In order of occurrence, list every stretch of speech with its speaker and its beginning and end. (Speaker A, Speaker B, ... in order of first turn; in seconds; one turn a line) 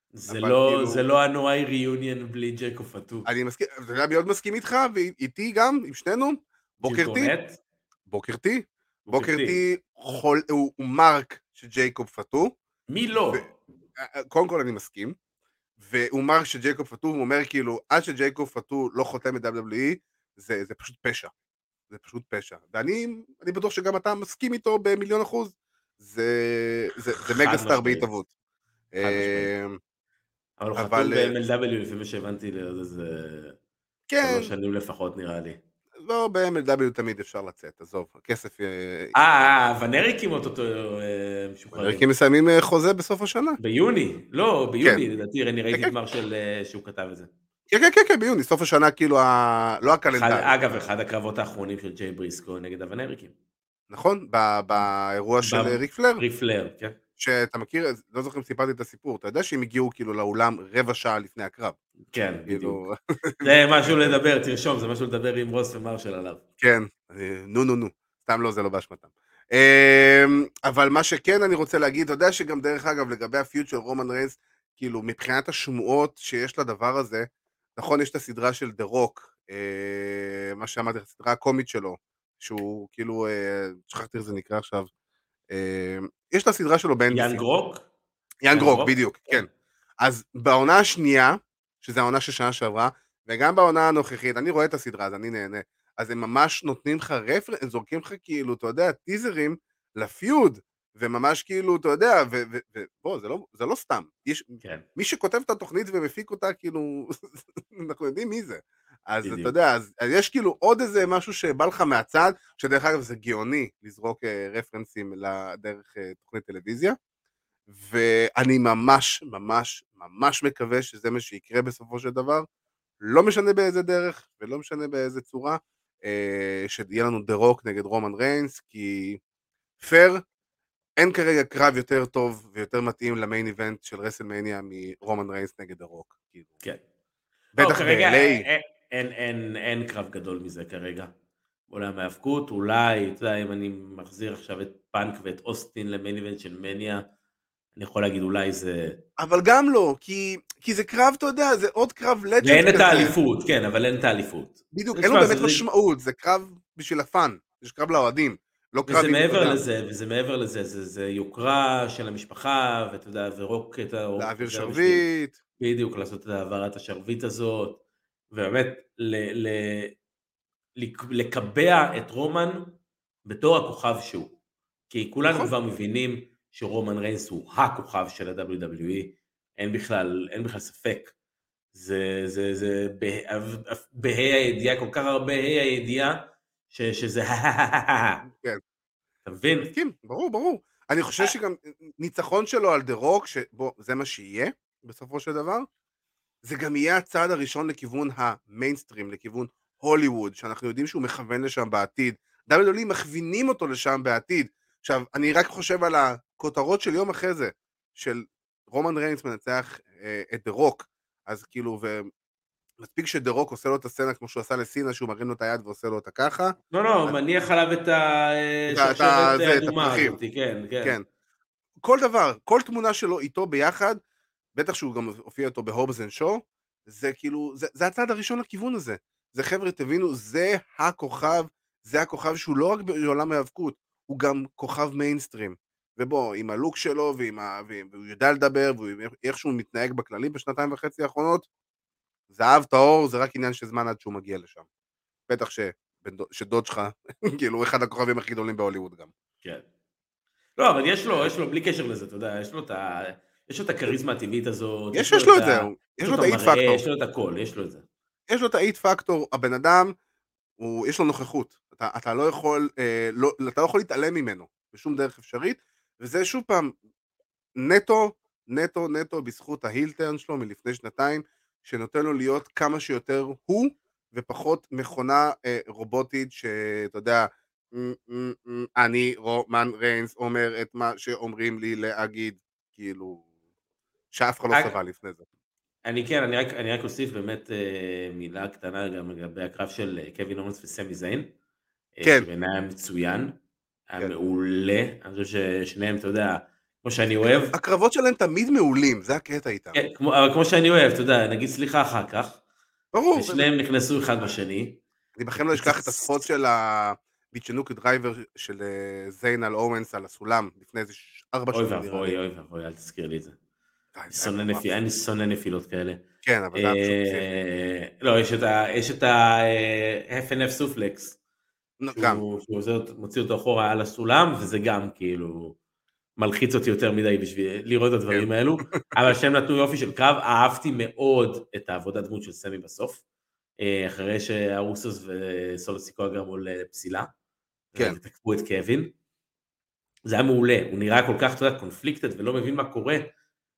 Speaker A: 0.2-3.3
Speaker B: 0.3-1.0
Speaker B: 3.3-7.3
Speaker A: 6.8-7.6
Speaker B: 8.1-12.5
Speaker A: 9.1-9.6
Speaker A: 12.9-13.5
Speaker B: 14.0-15.2
Speaker B: 15.8-21.3
Speaker B: 21.9-28.3
Speaker A: 27.3-28.1
Speaker B: 28.9-29.8
Speaker A: 29.0-29.5
Speaker A: 30.6-33.6
Speaker B: 30.7-31.3
Speaker B: 34.1-34.5
Speaker A: 34.2-35.6
Speaker B: 36.0-39.1
Speaker A: 39.1-42.0
Speaker B: 41.8-43.6
Speaker A: 43.6-47.3
Speaker B: 47.7-50.6
Speaker A: 50.1-53.3
Speaker B: 53.9-56.2
Speaker A: 55.4-57.0
Speaker B: 57.2-61.8
Speaker A: 62.1-62.8
Speaker B: 62.5-64.2
Speaker A: 63.4-66.4
Speaker B: 66.6-84.9
Speaker B: 85.5-87.4
Speaker A: 87.1-87.9
Speaker B: 88.4-89.5
Speaker A: 88.5-89.5
Speaker B: 90.0-117.0
Speaker A: 109.2-109.5
Speaker B: 117.7-122.5
Speaker B: 123.0-129.2
Speaker B: 129.8-130.2
Speaker B: 131.0-136.5
Speaker B: 137.6-138.4
Speaker A: 137.6-141.1
Speaker A: 141.7-147.0
Speaker A: 147.8-149.0
Speaker B: 149.2-153.2
Speaker A: 152.4-155.6
Speaker B: 154.7-159.6
Speaker A: 158.9-165.1
Speaker B: 164.2-165.3
Speaker A: 165.6-167.8
Speaker A: 168.3-169.9
Speaker A: 170.8-174.3
Speaker A: 174.9-181.1
Speaker B: 175.3-175.5
Speaker A: 181.7-188.2
Speaker B: 188.3-188.6
Speaker A: 189.3-189.7
Speaker B: 189.7-195.7
Speaker B: 196.4-212.1
Speaker B: 212.8-216.6
Speaker A: 216.7-221.0
Speaker B: 218.7-220.2
Speaker B: 221.8-224.0
Speaker B: 224.6-241.5
Speaker B: 242.3-244.7
Speaker B: 245.3-249.1
Speaker A: 250.6-257.8
Speaker B: 254.9-256.8
Speaker B: 258.3-259.9
Speaker B: 260.6-266.8
Speaker B: 267.6-283.2
Speaker B: 284.1-285.2
Speaker A: 285.9-291.3
Speaker A: 292.0-293.4
Speaker A: 293.9-297.5
Speaker B: 297.5-299.8
Speaker A: 299.7-302.4
Speaker B: 302.9-303.5
Speaker A: 303.1-304.8
Speaker B: 305.2-312.2
Speaker A: 305.6-306.1
Speaker A: 311.5-313.4
Speaker B: 313.9-314.7
Speaker A: 314.1-316.0
Speaker B: 316.2-317.3
Speaker A: 316.5-321.2
Speaker B: 321.8-322.2
Speaker A: 321.9-325.6
Speaker A: 326.2-333.0
Speaker B: 328.1-328.8
Speaker A: 333.6-337.1
Speaker A: 337.7-338.9
Speaker A: 340.1-343.1